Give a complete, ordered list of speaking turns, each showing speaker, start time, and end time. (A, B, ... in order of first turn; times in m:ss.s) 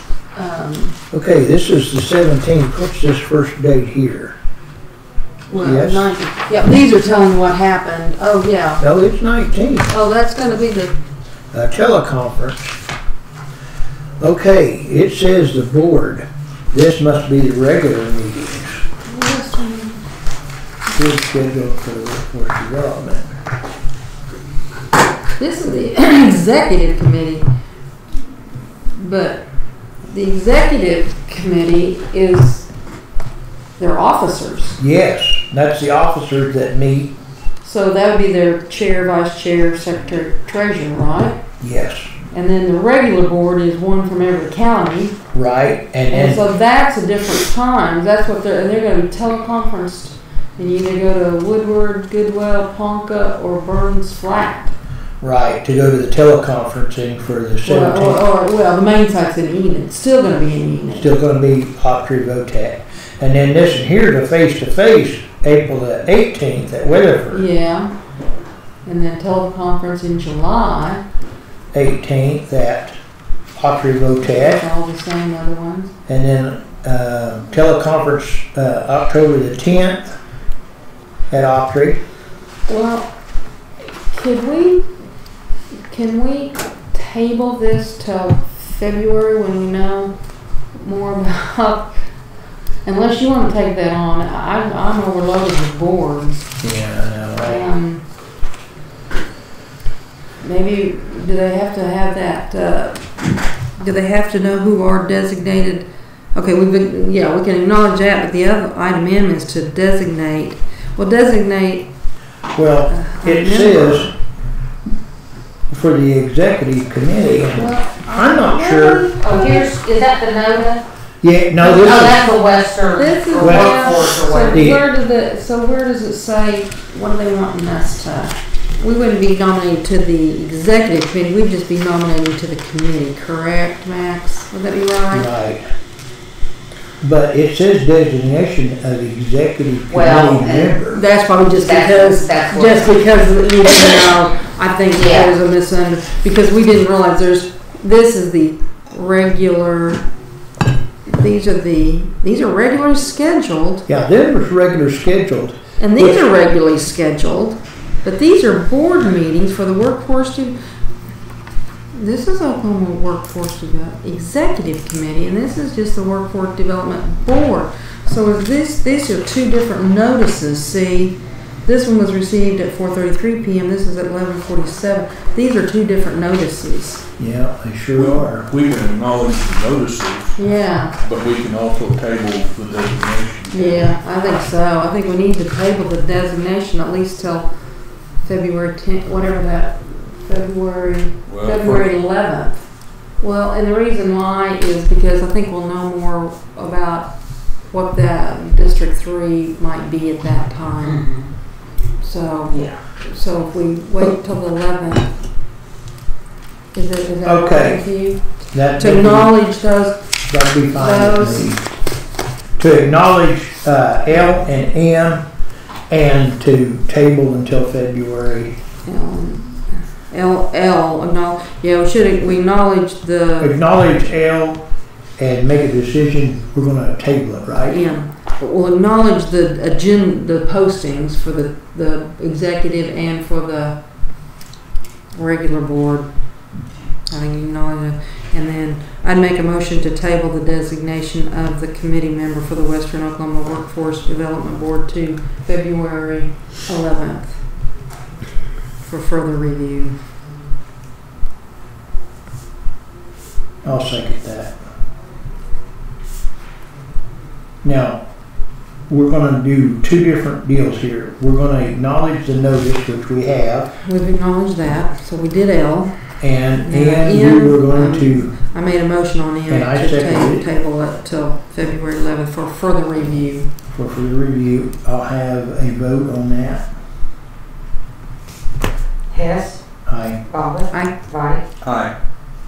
0:00.4-0:01.0 A
0:01.1-0:04.4 B
0:05.5-0:08.8 A
0:05.6-0:06.1 B
0:08.8-0:09.9 B
0:09.9-0:10.9 A
0:11.5-0:12.8 B
0:14.2-0:18.8 B
0:19.1-0:20.0 A
0:21.0-0:23.3 B
0:25.4-0:27.5 A
0:29.0-0:29.4 A
0:30.1-0:32.7 A
0:33.8-0:34.8 A
0:34.8-0:37.1 B
0:37.6-0:41.4 A
0:41.6-0:42.1 B
0:42.3-0:45.2 A
0:45.3-0:46.4 B
0:46.1-0:54.7 A
0:55.2-0:58.2 B
0:57.6-1:01.1 A
1:00.9-1:07.4 B
1:07.3-1:07.9 A
1:08.8-1:11.0 A
1:11.7-1:13.0 B
1:13.6-1:14.6 B
1:14.2-1:15.9 A
1:16.1-1:20.1 B
1:21.3-1:22.0 B
1:22.7-1:23.1 A
1:24.0-1:24.9 A
1:25.9-1:30.1 A
1:30.8-1:31.9 A
1:32.8-1:36.5 A
1:36.6-1:37.6 B
1:37.4-1:38.0 A
1:40.4-1:43.1 A
1:43.8-1:51.9 A
1:52.5-1:54.1 B
1:52.9-1:54.1 A
1:55.7-1:59.1 B
1:57.5-1:59.8 A
1:59.2-2:00.8 C
2:01.2-2:02.2 B
2:01.6-2:04.7 C
2:01.7-2:02.1 A
2:03.0-2:15.3 A
2:03.4-2:04.8 B
2:15.1-2:15.7 B
2:17.0-2:21.0 B
2:19.9-2:20.8 C
2:20.9-2:30.0 A
2:21.5-2:22.9 C
2:25.0-2:25.3 C
2:31.1-2:33.9 A
2:33.9-2:36.2 B
2:35.8-2:40.6 A
2:41.9-2:57.0 A
2:57.2-2:58.5 B
2:58.0-3:00.4 D
3:00.4-3:00.9 A
3:01.0-3:04.0 D
3:03.5-3:07.5 A
3:08.2-3:12.6 A
3:11.3-3:11.9 D
3:13.2-3:17.1 A
3:17.7-3:21.1 A
3:20.9-3:21.2 C
3:22.0-3:25.1 A
3:22.5-3:22.8 C
3:26.7-3:28.2 A
3:27.2-3:27.8 B
3:28.5-3:29.4 B
3:28.8-3:30.0 A
3:30.3-3:31.6 B
3:30.7-3:31.5 A
3:32.6-3:35.2 B
3:35.9-3:38.6 B
3:38.8-3:43.6 A
3:43.4-3:44.6 B
3:45.2-3:47.8 B
3:47.6-3:53.8 A
3:55.1-3:56.1 A
3:57.1-4:07.4 A
4:08.8-4:10.0 A
4:13.6-4:14.6 B
4:17.6-4:18.0 B
4:18.9-4:23.7 B
4:23.8-4:25.9 A
4:26.2-4:28.3 B
4:26.6-4:33.5 A
4:29.5-4:30.5 B
4:33.7-4:36.6 B
4:39.1-4:39.6 C
4:39.9-4:40.2 B
4:40.3-4:41.4 C
4:41.6-4:41.9 D